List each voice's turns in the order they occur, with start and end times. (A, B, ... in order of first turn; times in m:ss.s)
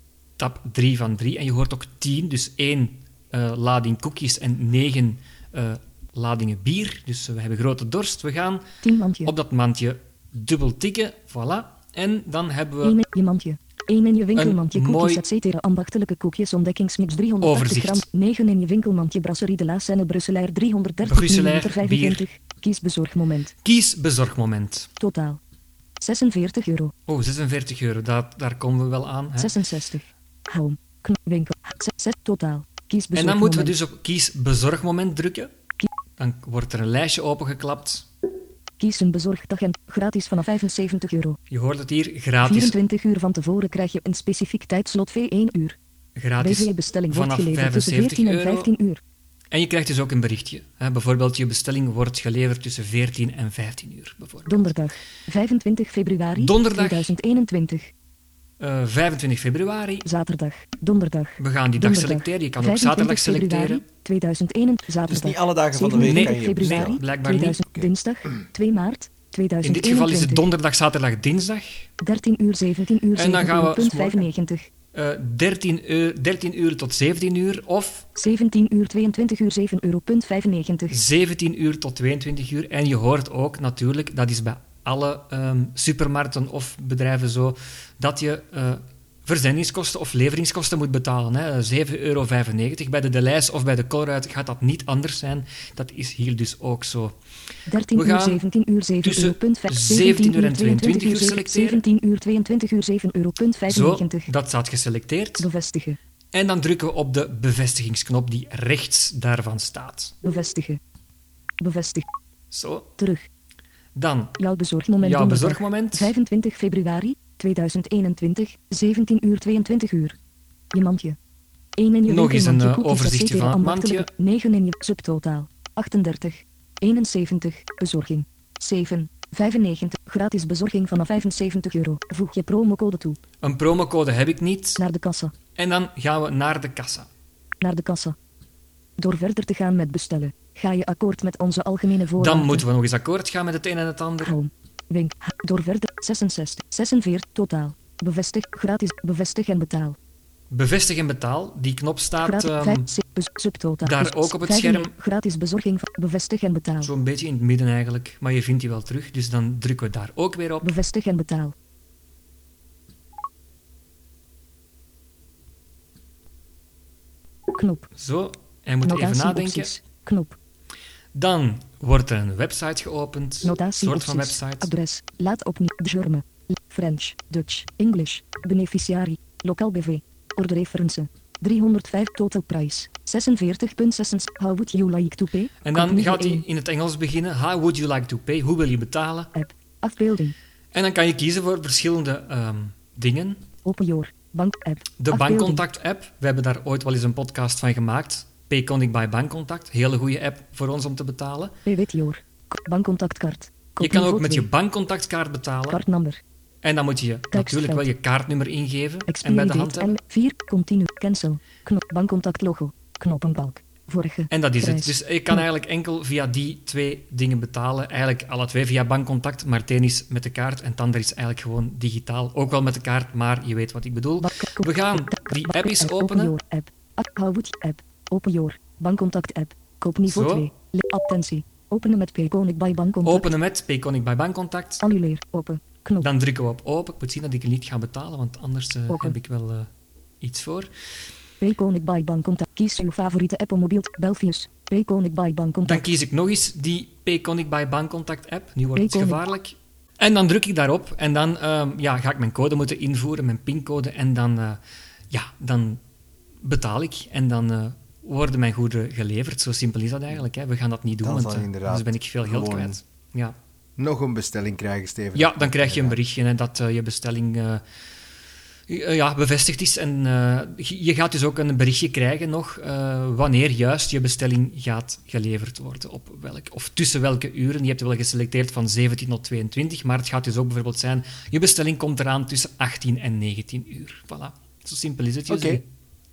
0:00.4-0:08.6 A
0:08.8-0:09.3 B
0:09.2-0:13.0 A
0:12.8-0:23.5 B
0:14.3-0:15.2 A
0:17.4-0:18.0 A
0:21.0-0:22.2 A
0:23.6-0:24.9 A
0:25.0-0:25.4 B
0:26.0-0:26.9 B
0:27.1-0:29.5 A
0:29.4-0:33.8 B
0:33.1-0:35.5 A
0:36.2-0:38.1 A
0:38.8-0:41.4 B
0:41.5-0:42.8 A
0:42.4-0:45.8 B
0:46.2-0:48.7 A
0:46.4-0:49.0 B
0:49.5-0:54.7 A
0:54.5-0:57.9 B
0:56.4-0:57.1 A
0:58.6-1:00.0 A
1:00.0-1:10.5 B
1:01.4-1:03.8 A
1:05.1-1:07.0 C
1:05.9-1:07.6 A
1:09.6-1:11.9 A
1:12.0-1:14.7 B
1:13.1-1:14.1 A
1:14.0-1:14.2 C
1:14.9-1:18.1 A
1:18.2-1:21.0 B
1:20.9-1:37.1 A
1:37.7-1:44.3 B
1:37.9-1:38.4 A
1:39.0-1:41.8 A
1:43.7-1:45.5 A
1:45.4-1:46.0 B
1:46.3-1:50.1 A
1:50.2-1:50.8 B
1:51.6-1:52.1 B
1:52.5-1:52.9 A
1:53.0-1:53.3 B
1:53.9-1:54.4 A
1:54.4-2:00.2 B
1:55.0-1:56.1 A
2:00.7-2:01.2 B
2:01.8-2:13.2 B
2:02.1-2:04.1 A
2:13.4-2:14.8 A
2:14.8-2:15.3 B
2:15.6-2:17.1 A
2:17.6-2:18.2 B
2:19.0-2:22.6 B
2:22.2-2:24.3 A
2:24.2-2:30.0 B
2:30.5-2:32.9 A
2:32.2-2:36.9 B
2:33.8-2:34.9 A
2:36.8-2:40.7 A
2:40.6-2:41.5 B
2:47.5-2:47.9 B
2:48.0-2:49.7 A
2:48.8-2:50.4 B
2:51.1-2:54.7 A
2:53.4-3:06.4 B
3:05.6-3:09.3 A
3:09.3-3:10.3 B
3:10.7-3:13.4 A
3:13.6-3:15.6 B
3:15.0-3:21.6 A
3:21.6-3:24.5 B
3:23.8-3:25.8 A
3:25.7-3:26.2 B
3:26.6-3:29.9 A
3:27.3-3:27.9 B
3:29.1-3:35.4 B
3:34.3-3:46.3 A
3:44.2-3:53.3 B
3:50.1-3:50.5 A
3:53.0-3:54.8 A
3:54.8-3:56.1 B
3:56.0-3:59.7 A
3:58.9-3:59.2 B
4:00.2-4:00.7 A
4:01.4-4:05.9 B
4:05.6-4:14.6 A
4:08.7-4:09.2 B
4:15.1-4:15.8 A
4:16.4-4:23.3 A
4:21.0-4:22.8 C
4:23.8-4:26.0 C
4:25.1-4:27.6 A
4:28.7-4:45.6 A
4:45.3-4:45.6 C